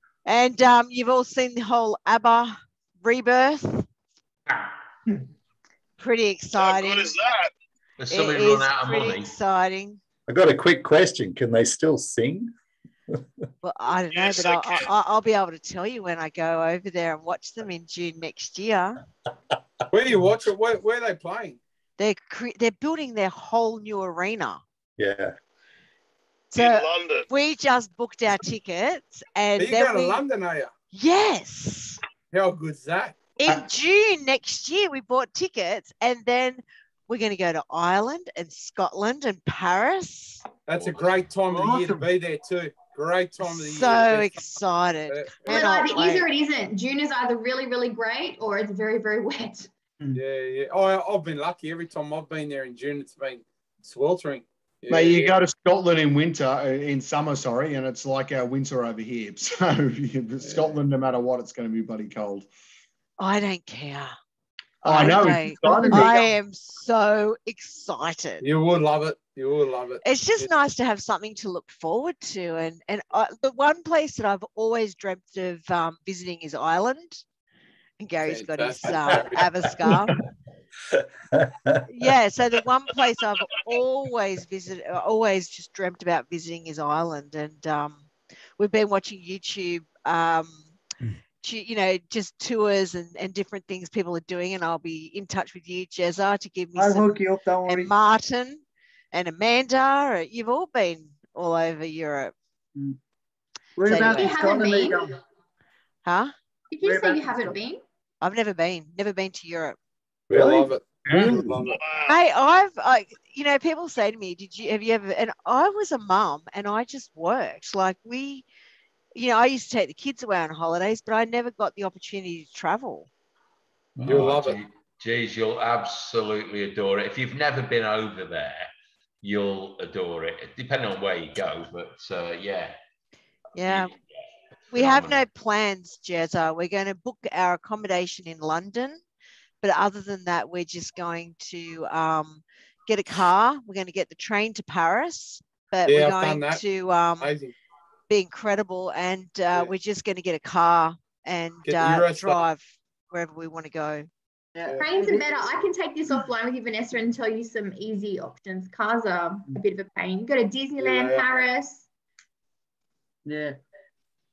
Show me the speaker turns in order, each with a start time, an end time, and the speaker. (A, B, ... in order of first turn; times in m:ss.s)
0:00.3-0:03.9 A
0:06.0-0:07.1 A
0:06.6-0:07.5 B
0:08.0-0:09.3 C
0:08.1-0:10.0 A
0:10.3-0:12.5 D
0:13.6-0:19.0 A
0:14.1-0:14.9 B
0:19.9-0:21.6 E
0:22.0-0:24.6 A
0:25.0-0:25.4 D
0:26.5-0:30.2 A
0:26.5-0:27.3 B
0:29.6-0:30.7 E
0:30.9-0:32.0 A
0:32.3-0:33.6 E
0:33.4-0:40.4 A
0:40.7-0:45.8 E
0:40.7-0:41.2 C
0:41.5-0:42.0 F
0:43.4-0:46.3 A
0:45.4-0:49.7 G
0:50.2-0:55.4 E
0:54.9-1:02.5 H
1:03.2-1:04.2 A
1:04.8-1:06.1 H
1:04.9-1:08.4 A
1:04.9-1:06.3 F
1:08.4-1:10.5 E
1:10.0-1:17.2 A
1:18.0-1:20.1 A
1:18.3-1:19.9 E
1:20.9-1:22.1 D
1:21.9-1:30.8 A
1:31.4-1:37.1 A
1:36.8-1:37.9 F
1:37.7-1:38.6 A
1:39.1-1:42.3 A
1:43.8-1:45.1 F
1:43.9-1:44.4 A
1:44.1-1:45.1 G
1:46.0-1:46.3 A
1:46.7-1:47.8 G
1:46.8-1:47.6 F
1:48.2-1:49.8 A
1:50.3-1:51.6 D
1:50.3-1:51.8 E
1:51.1-1:51.4 H
1:51.6-1:52.2 B
1:52.1-1:58.5 A
1:59.2-2:03.1 A
2:04.0-2:04.6 E
2:04.0-2:08.7 C
2:09.2-2:12.8 C
2:13.6-2:13.9 A
2:13.6-2:15.2 C
2:14.7-2:19.0 A
2:19.6-2:27.3 A
2:25.9-2:26.6 E
2:27.2-2:27.5 E
2:28.1-2:34.1 A
2:31.6-2:32.4 E
2:34.6-2:35.2 F
2:34.8-2:41.8 G
2:40.8-2:41.3 E
2:43.3-2:43.6 F